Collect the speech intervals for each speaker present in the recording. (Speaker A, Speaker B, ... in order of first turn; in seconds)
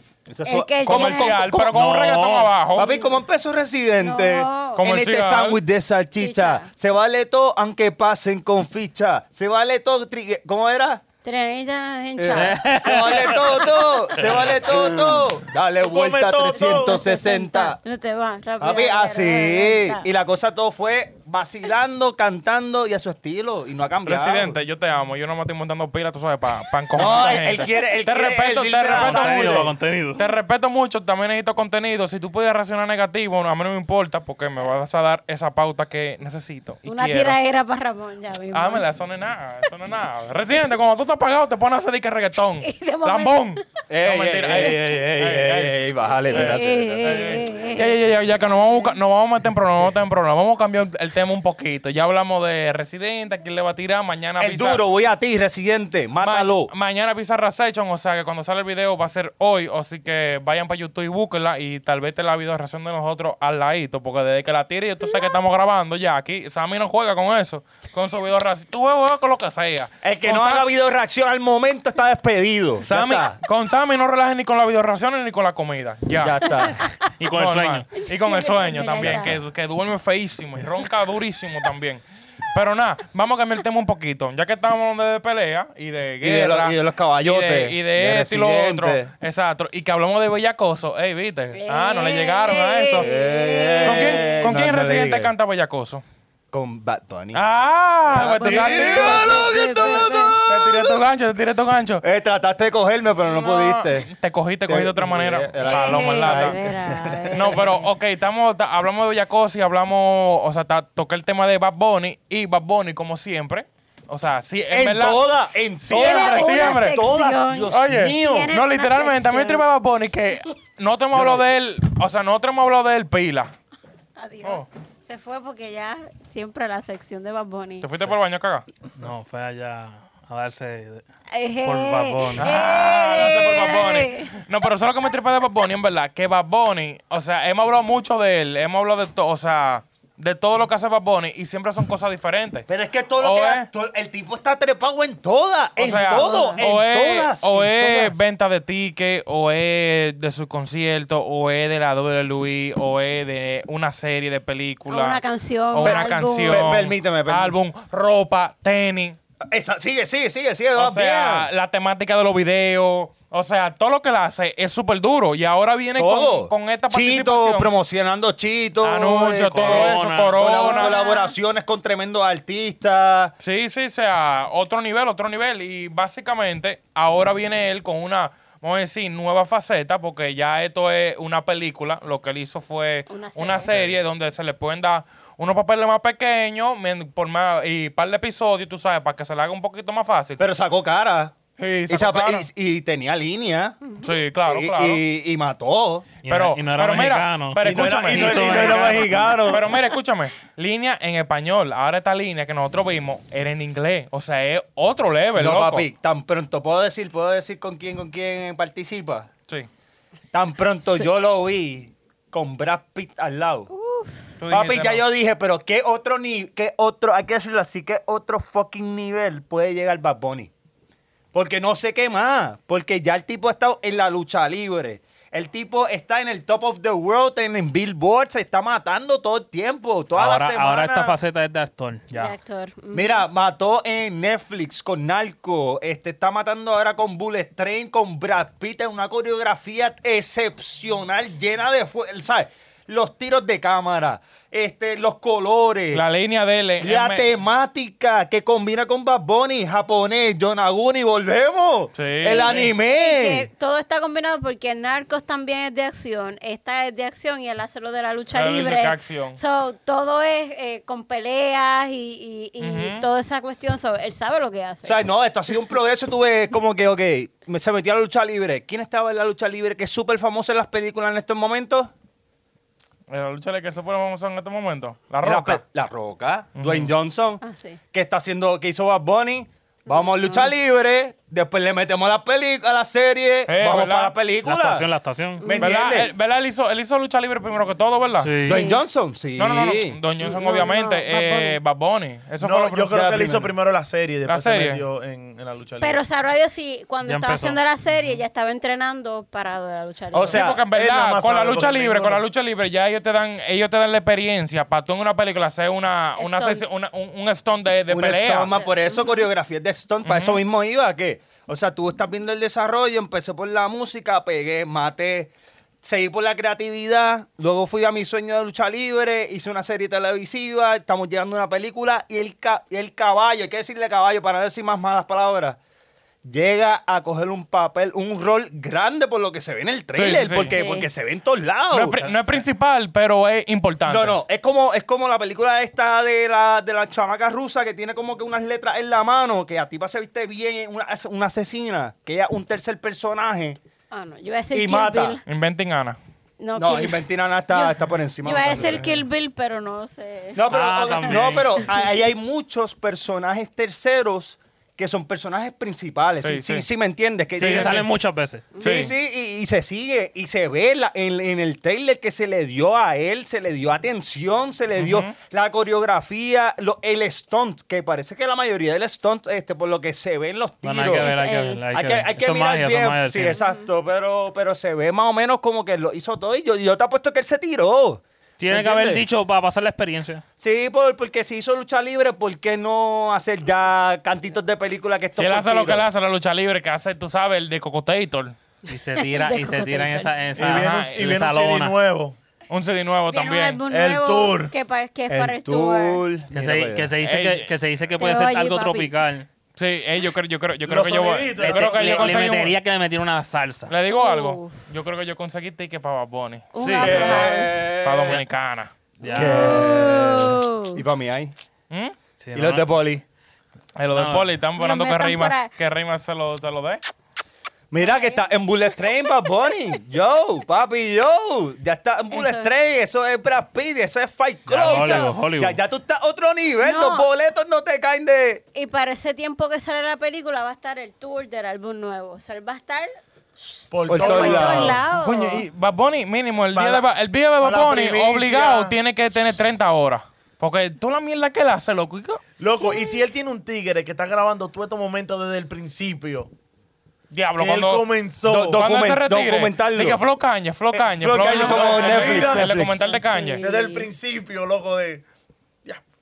Speaker A: 0.3-1.8, 2.8-11.0, 12.2-17.8, 18.6-24.6, 26.9-29.7, 43.9-47.6, 54.4-56.7, 70.0-73.4, 76.2-76.8, 86.2-89.1, 93.0-95.3, 96.5-97.4, 98.1-101.0, 102.0-104.1, 104.7-107.6, 114.7-118.5, 121.1-121.4, 142.7-148.2, 155.8-157.5, 159.5-161.5, 166.0-173.3, 190.4-191.3, 191.9-193.8, 194.5-196.1, 197.6-199.7, 205.4-209.3, 210.3-213.7, 214.5-220.5, 221.3-231.2, 232.9-246.0, 246.8-253.5, 264.8-271.9, 275.2-284.9, 285.4-286.1, 288.4-290.0, 292.9-293.5, 300.1-300.6, 307.9-325.6, 326.2-332.4, 333.9-343.6, 344.5-345.2, 346.6-348.9, 350.3-357.9, 358.6-371.1, 371.7-379.1, 380.4-385.9, 395.1-396.9, 406.8-408.2, 409.1-411.3, 412.3-413.0, 417.7-428.4, 433.9-434.8, 448.3-450.0, 451.0-452.8
Speaker B: 0.5-1.4, 4.0-4.8, 6.2-6.7, 11.2-14.4, 16.5-20.1, 36.9-38.9, 42.6-43.5, 46.3-48.0, 76.6-77.0, 78.1-79.4, 91.5-94.5, 98.2-100.4, 105.7-107.8, 115.9-119.6, 124.2-127.9, 131.3-134.3, 146.0-146.6, 154.9-156.7, 170.6-171.4, 183.1-183.8, 213.7-214.3, 232.1-233.2, 252.3-265.0, 277.4-277.8, 279.9-280.5, 285.4-285.7, 288.5-288.8, 290.2-291.6, 295.8-300.4, 306.2-306.7, 308.5-309.3, 330.5-330.9, 343.9-345.2, 346.4-350.4, 351.0-351.6, 358.5-358.9, 371.0-371.6, 373.3-373.7, 388.7-390.1, 393.1-396.0, 398.0-398.9, 403.9-404.7, 406.5-407.7, 409.1-410.8, 414.6-415.5, 417.8-418.3, 422.1-422.5, 424.6-425.2, 426.6-427.1, 428.5-435.4, 442.6-443.0, 452.6-453.9
Speaker C: 0.8-3.0, 4.8-5.6, 24.1-37.4, 38.5-54.8, 56.2-70.7, 72.8-76.5, 77.3-93.1, 93.8-96.0, 97.3-99.4, 100.4-102.0, 103.3-106.6, 107.3-115.2, 115.8-117.0, 117.7-123.5, 127.8-128.7, 132.4-142.7, 143.2-143.7, 145.8-159.2, 160.8-167.7, 168.8-171.0, 173.4-190.4, 191.6-192.5, 194.0-195.0, 196.3-205.9, 214.4-215.1, 245.9-247.3, 251.9-252.7, 258.3-259.4, 262.6-263.1, 273.1-275.6, 276.6-276.9, 283.5-284.1, 285.6-288.3, 289.4-293.0, 294.3-294.9, 300.3-308.5, 310.1-310.4, 329.9-330.6, 331.7-334.2, 345.3-346.0, 356.2-356.7, 357.4-357.9, 358.6-358.9, 364.8-365.1, 385.1-388.4, 390.4-391.1, 392.5-393.6, 397.0-397.5, 399.6-402.6, 403.7-407.3, 407.8-408.7, 411.7-411.9, 413.8-416.8, 434.9-442.2, 447.1-447.9, 448.5-453.4
Speaker D: 1.7-2.5, 12.3-15.2, 28.9-30.2, 77.2-77.9, 129.0-131.0, 131.6-132.8, 169.5-170.4, 196.2-199.4, 230.2-232.3, 284.4-285.4, 288.2-288.7, 297.0-297.6, 350.5-351.7, 357.4-358.5, 370.6-373.4, 378.4-380.2, 388.7-391.8, 396.3-399.3, 401.4-403.7, 406.6-407.3, 409.0-409.8, 412.2-412.7, 413.9-414.3, 424.5-425.6
Speaker E: 15.8-17.0, 292.4-296.0, 300.5-302.2, 390.4-392.2, 393.7-394.5, 400.6-402.2, 433.7-434.8, 436.5-436.9, 437.4-438.8, 442.4-446.3, 447.4-448.6, 450.8-452.6, 453.4-455.0